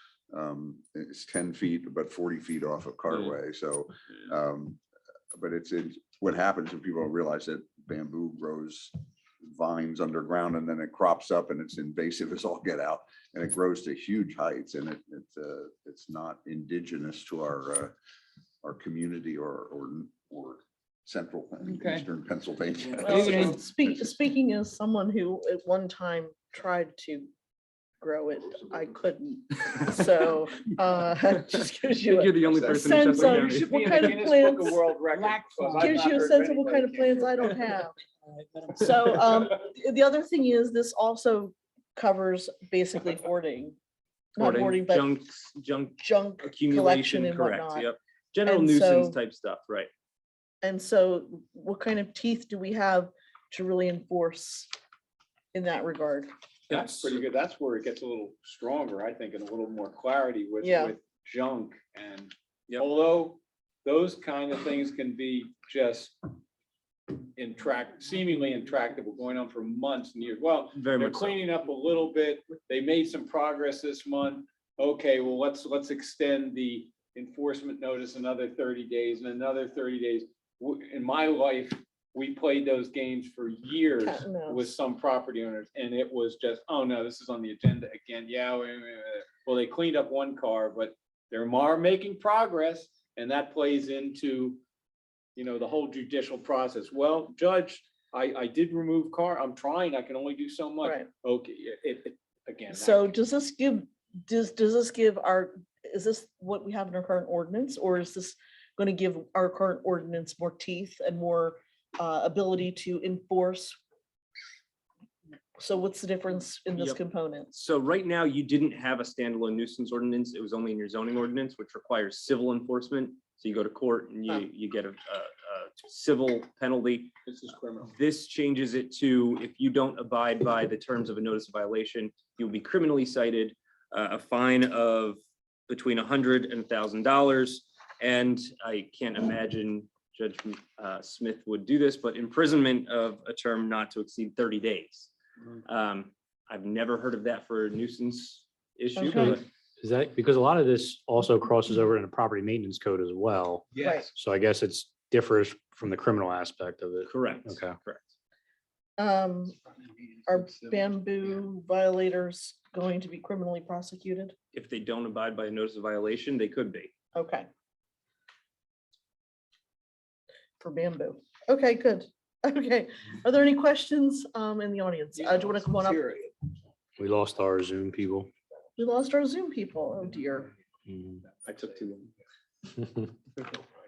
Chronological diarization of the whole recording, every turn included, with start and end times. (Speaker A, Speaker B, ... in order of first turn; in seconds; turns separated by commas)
Speaker A: 0.3-4.8, Speaker A: 5.3-17.9, Speaker A: 18.6-23.5, Speaker B: 21.7-22.0, Speaker C: 23.0-23.4, Speaker D: 23.0-27.3, Speaker B: 23.1-23.6, Speaker D: 28.0-34.8, Speaker C: 32.0-34.2, Speaker B: 33.1-37.5, Speaker D: 35.8-38.0, Speaker D: 38.8-43.8, Speaker D: 44.4-45.1, Speaker C: 44.4-49.9, Speaker D: 46.0-47.9, Speaker D: 48.4-49.2, Speaker D: 50.6-54.7, Speaker D: 55.5-56.3, Speaker B: 56.7-66.3, Speaker C: 56.7-57.1, Speaker D: 60.6-60.9, Speaker B: 67.3-94.6, Speaker C: 70.7-71.4, Speaker D: 84.0-84.7, Speaker B: 95.3-103.1, Speaker D: 100.8-101.1, Speaker D: 102.7-113.8, Speaker D: 115.6-117.5, Speaker C: 117.5-127.1, Speaker B: 127.2-127.9, Speaker C: 127.9-145.1, Speaker C: 145.6-149.4, Speaker D: 149.0-149.4, Speaker E: 149.2-157.8, Speaker D: 153.8-154.1, Speaker C: 157.0-158.1, Speaker D: 159.0-159.6, Speaker D: 160.2-164.3, Speaker C: 164.5-166.9, Speaker D: 167.1-167.5, Speaker D: 170.6-176.0, Speaker B: 175.2-176.3, Speaker E: 177.0-178.3, Speaker D: 178.8-180.5, Speaker E: 180.9-181.2, Speaker C: 181.5-182.0